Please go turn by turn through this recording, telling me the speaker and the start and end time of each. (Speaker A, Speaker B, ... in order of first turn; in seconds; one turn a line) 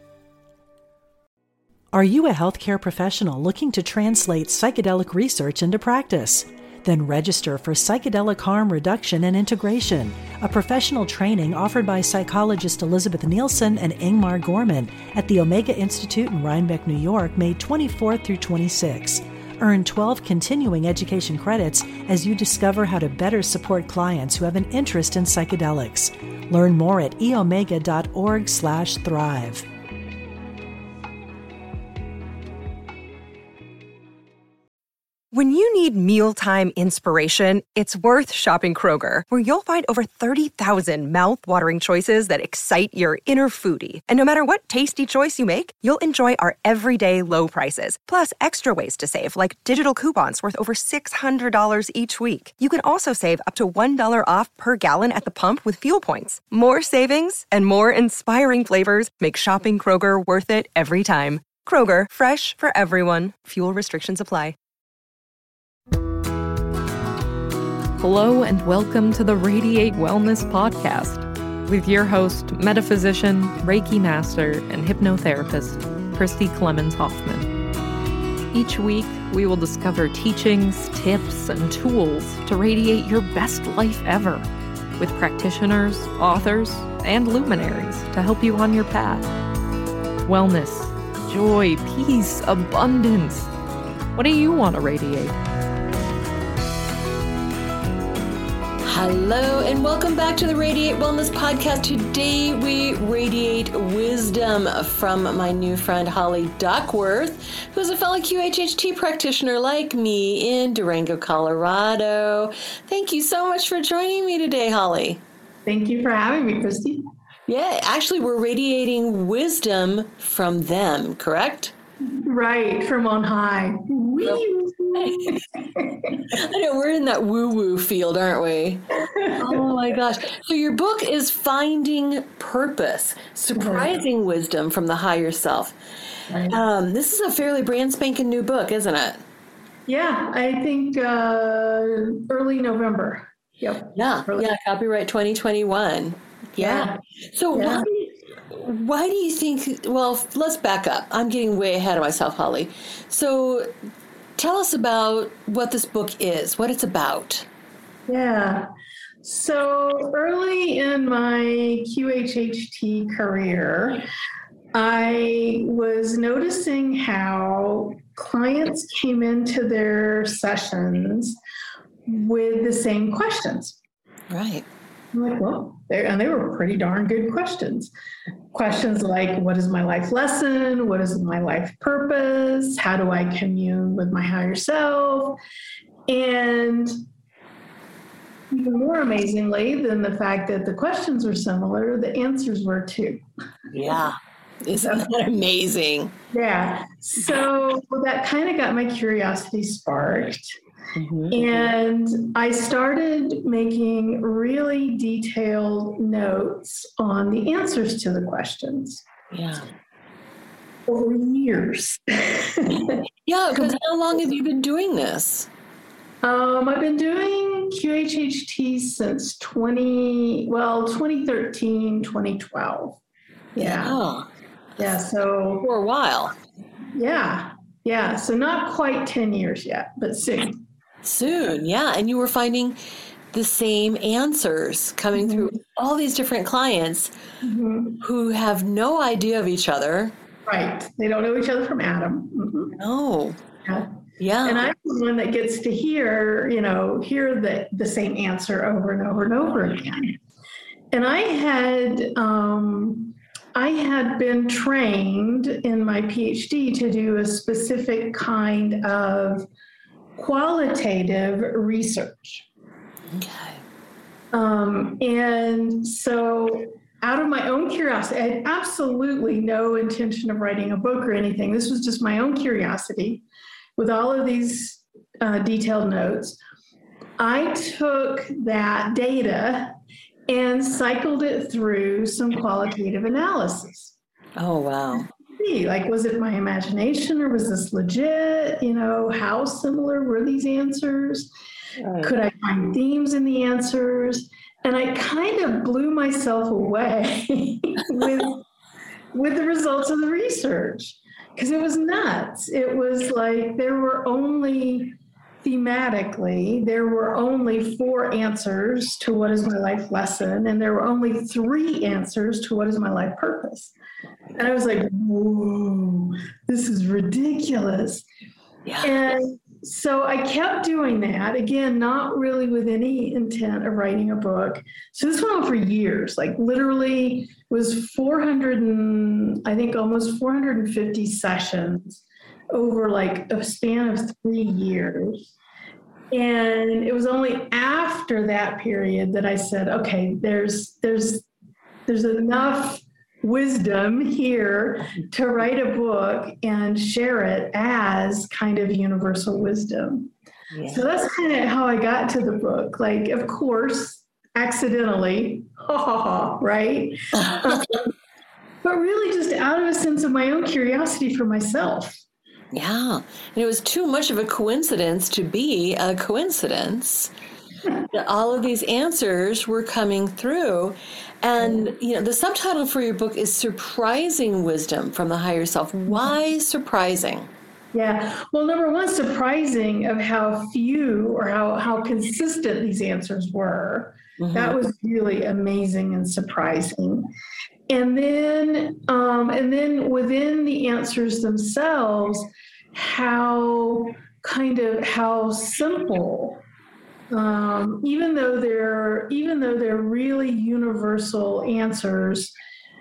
Speaker A: 1.9-29.6
Speaker B: 35.3-64.5
Speaker C: 68.0-77.5
Speaker C: 78.5-89.3
Speaker C: 90.2-93.5
Speaker C: 94.1-95.4
Speaker D: 98.8-115.2
Speaker E: 115.7-117.0
Speaker D: 117.5-121.7
Speaker E: 122.1-126.4
Speaker D: 125.0-125.4
Speaker D: 126.2-128.8
Speaker E: 129.1-129.7
Speaker D: 129.3-135.8
Speaker E: 133.5-134.0
Speaker E: 136.3-136.6
Speaker D: 136.5-139.2
Speaker E: 139.9-144.5
Speaker D: 143.9-153.7
Speaker E: 146.6-147.0
Speaker E: 147.5-147.8
Speaker D: 154.4-157.5
Speaker E: 158.1-158.7
Speaker E: 159.2-164.0
Speaker E: 164.7-171.4
Speaker E: 172.1-173.8
Speaker D: 174.3-174.7
Speaker E: 175.1-177.9
Speaker E: 178.5-185.4
Speaker E: 186.1-186.9
Speaker E: 188.5-193.2
Speaker D: 193.7-196.2
Speaker E: 194.8-195.1
Speaker E: 196.3-200.6
Speaker D: 197.2-197.4
Speaker D: 200.9-201.7
Speaker E: 201.3-209.0
Speaker D: 209.3-209.7
Speaker E: 210.9-213.0
Speaker D: 212.8-215.5
Speaker E: 216.2-223.0
Speaker E: 223.5-224.0
Speaker D: 223.6-225.0
Speaker E: 224.8-225.7
Speaker D: 225.6-226.3
Speaker E: 226.9-230.6
Speaker D: 231.0-232.8
Speaker D: 233.3-237.1
Speaker E: 235.1-235.5
Speaker E: 237.4-238.0
Speaker D: 238.0-240.1
Speaker E: 240.4-242.7
Speaker D: 242.7-243.4
Speaker D: 244.2-244.7
Speaker E: 244.4-250.2
Speaker E: 250.9-259.5
Speaker E: 260.2-262.4
Speaker D: 263.1-263.6
Speaker E: 264.3-273.2
Speaker E: 273.8-276.4
Speaker E: 277.2-279.8
Speaker E: 280.3-283.9
Speaker D: 284.4-285.1
Speaker E: 285.2-291.3
Speaker D: 291.8-292.1
Speaker E: 292.0-298.4
Speaker E: 299.1-313.7
Speaker E: 314.4-318.1
Speaker D: 318.6-319.1
Speaker E: 318.8-335.3
Speaker E: 336.1-341.3
Speaker E: 341.9-350.1
Speaker D: 350.5-350.8
Speaker E: 350.7-357.9
Speaker D: 357.1-357.6
Speaker E: 358.6-362.0
Speaker D: 362.5-367.1
Speaker D: 367.9-377.3
Speaker E: 375.9-376.1
Speaker E: 377.7-387.1
Speaker D: 384.2-384.6
Speaker E: 387.7-396.4
Speaker E: 397.1-402.3